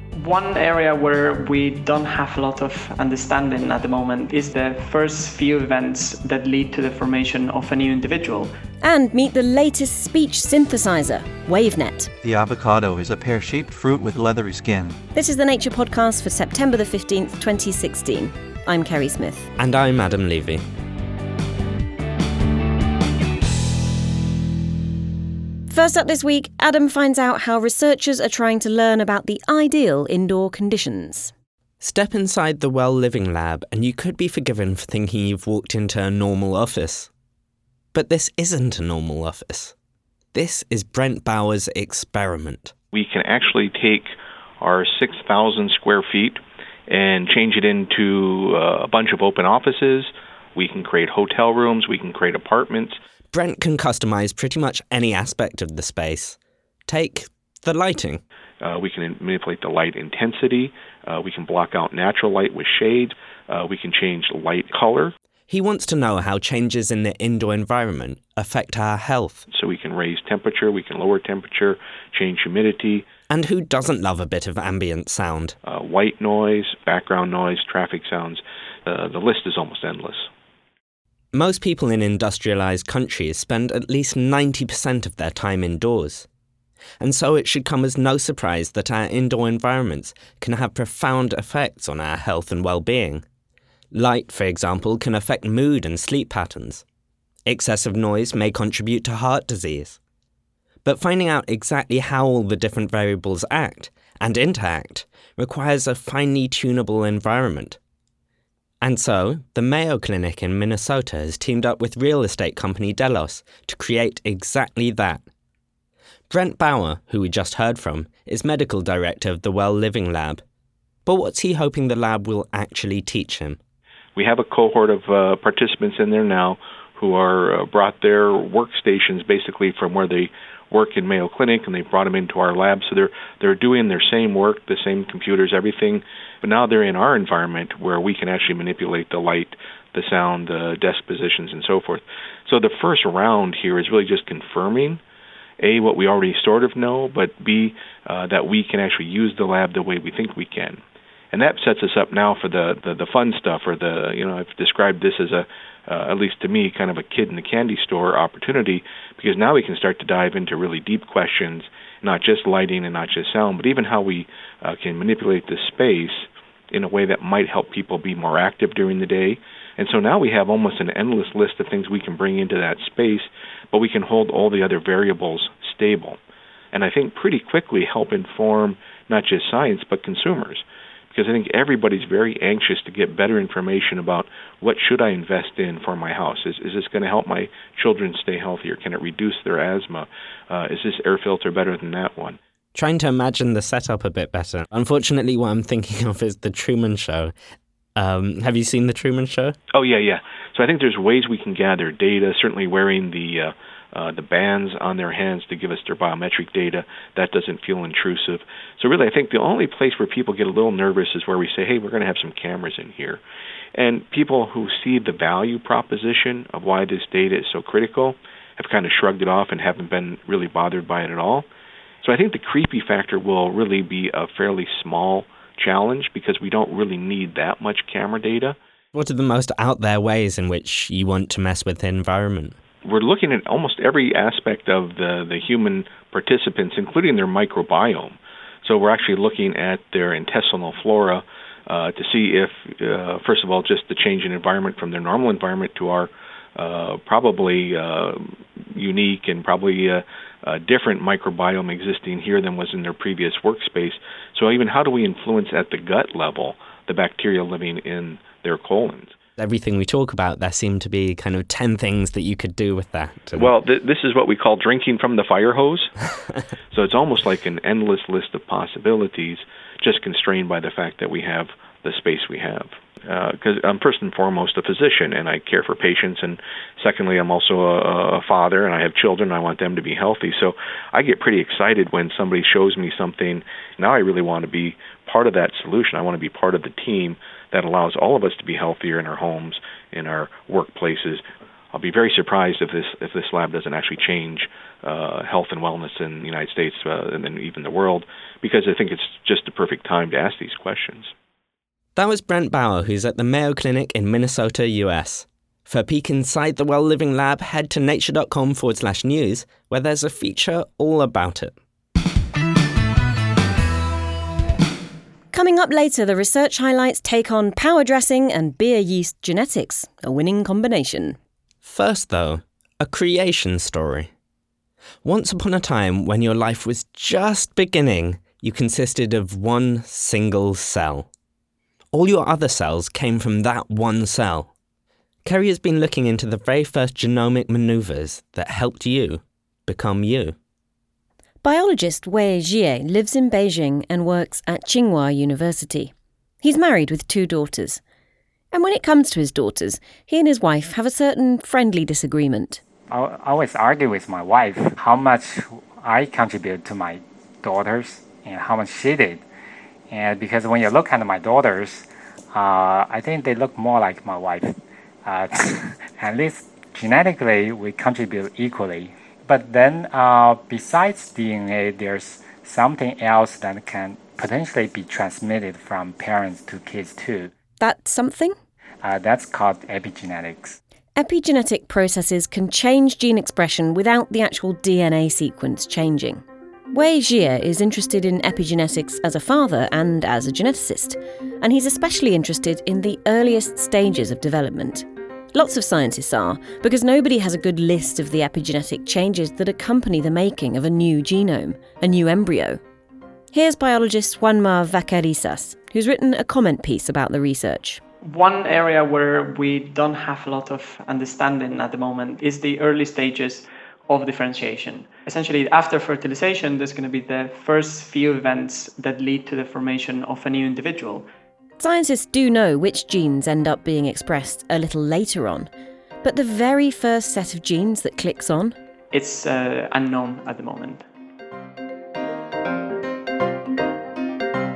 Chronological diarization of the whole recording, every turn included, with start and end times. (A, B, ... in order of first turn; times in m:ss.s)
0:00.2-0:08.5 A
0:08.8-0:12.1 B
0:12.2-0:15.0 C
0:15.1-0:19.5 B
0:19.6-0:20.6 D
0:25.7-0:31.3 B
0:31.8-0:37.1 D
0:37.9-0:39.7 D
0:40.3-0:42.7 D
0:42.9-0:53.0 E
0:53.3-0:58.2 D
0:58.6-1:05.1 E
1:05.5-1:09.5 D
1:09.5-1:13.1 E
1:13.3-1:15.6 D
1:15.6-1:20.3 E
1:21.3-1:26.3 D
1:27.0-1:33.2 D
1:33.9-1:36.8 D
1:37.4-1:40.0 D
1:40.8-1:47.8 D
1:48.8-1:55.2 D
1:56.3-2:00.4 D
2:01.1-2:03.6 D
2:04.2-2:25.0 E
2:25.6-2:30.8 E
2:31.3-2:56.2 E
2:56.7-3:12.4 E
3:12.8-3:17.4 D
3:18.0-3:19.6 D
3:19.7-3:33.2 E
3:33.8-3:41.5 E
3:42.0-3:48.6 E
3:48.9-3:52.6 D
3:52.8-4:19.2 E
4:19.4-4:23.5 D
4:23.4-4:25.9 E
4:26.7-5:01.1 E
5:02.0-5:11.6 D
5:15.3-5:21.2 B
5:21.6-5:24.1 D
5:25.0-5:31.1 D
5:31.9-5:34.5 D
5:35.2-5:40.4 D
5:41.4-5:47.8 B
5:48.5-5:52.6 B
5:52.9-5:59.2 F
5:59.9-6:17.3 F
6:17.6-6:18.4 B
6:18.8-6:20.6 F
6:21.0-6:42.6 B
6:43.3-6:47.8 B
6:48.0-7:01.1 A
7:01.6-7:05.5 B
7:06.0-7:08.6 B
7:08.9-7:10.8 A